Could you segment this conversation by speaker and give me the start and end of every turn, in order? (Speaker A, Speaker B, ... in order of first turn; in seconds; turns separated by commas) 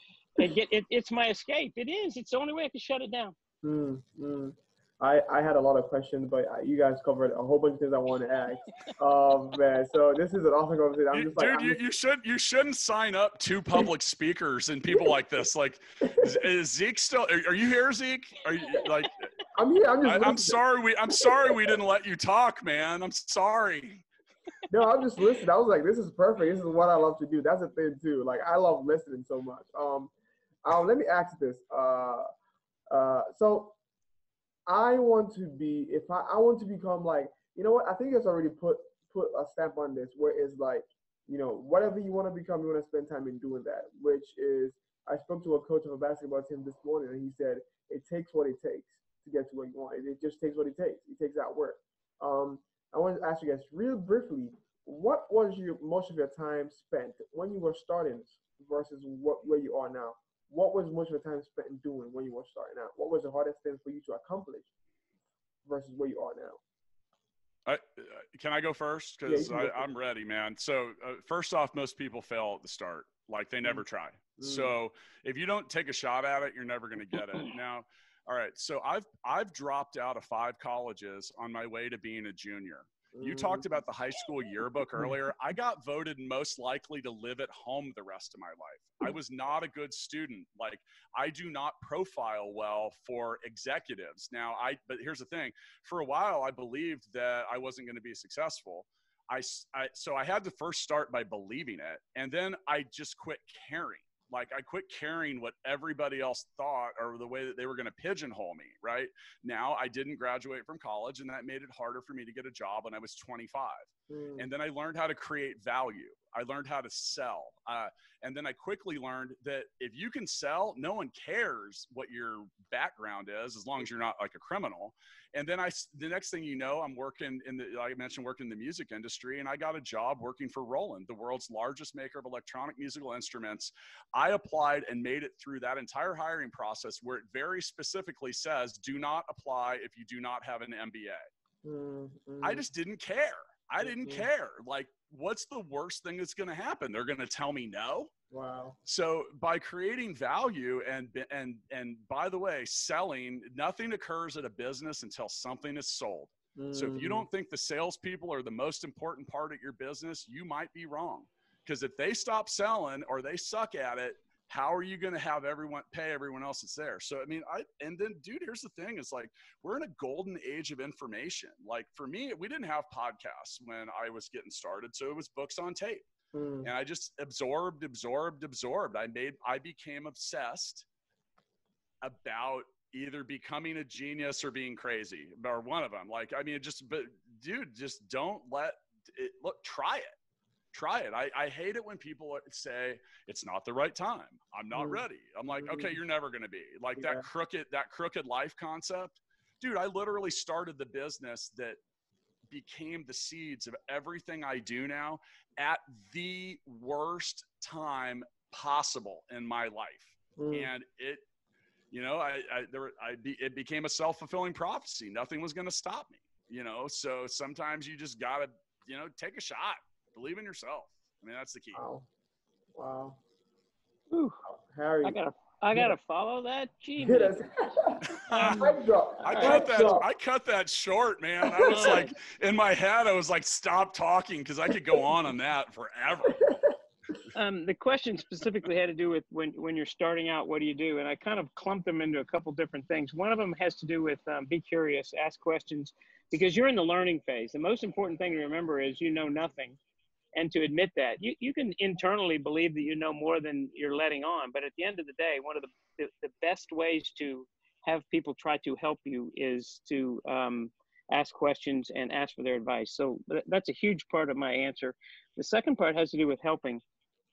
Speaker A: 0.3-3.3, Speaker B: 3.6-11.8, Speaker C: 11.1-19.3, Speaker B: 16.0-16.4, Speaker B: 19.5-20.6, Speaker C: 20.0-24.0, Speaker B: 21.2-21.7, Speaker B: 24.7-30.1, Speaker B: 30.6-32.3, Speaker B: 32.9-33.8, Speaker B: 34.7-64.7, Speaker B: 65.6-66.6, Speaker C: 67.7-141.2, Speaker B: 69.2-69.9, Speaker B: 74.4-74.7, Speaker B: 83.1-83.7, Speaker B: 114.1-114.5, Speaker B: 141.6-142.7, Speaker C: 142.4-148.1, Speaker B: 143.8-144.3, Speaker B: 148.3-148.8, Speaker C: 148.8-176.1, Speaker B: 156.6-157.3, Speaker B: 176.3-176.7, Speaker C: 176.6-180.8, Speaker C: 182.0-190.1, Speaker C: 190.7-201.8, Speaker B: 194.7-195.0, Speaker B: 195.6-196.0, Speaker B: 197.0-197.3, Speaker C: 202.5-211.2, Speaker B: 210.4-210.7, Speaker C: 211.9-221.8, Speaker B: 221.7-222.1, Speaker B: 222.7-223.2, Speaker A: 224.1-224.4, Speaker B: 224.4-225.2, Speaker A: 225.0-227.4, Speaker B: 227.0-230.1, Speaker C: 228.1-236.4, Speaker A: 228.3-228.7, Speaker A: 229.3-230.0, Speaker B: 231.4-232.1, Speaker A: 231.6-232.1, Speaker B: 236.3-236.8, Speaker A: 237.3-249.8, Speaker A: 250.3-266.8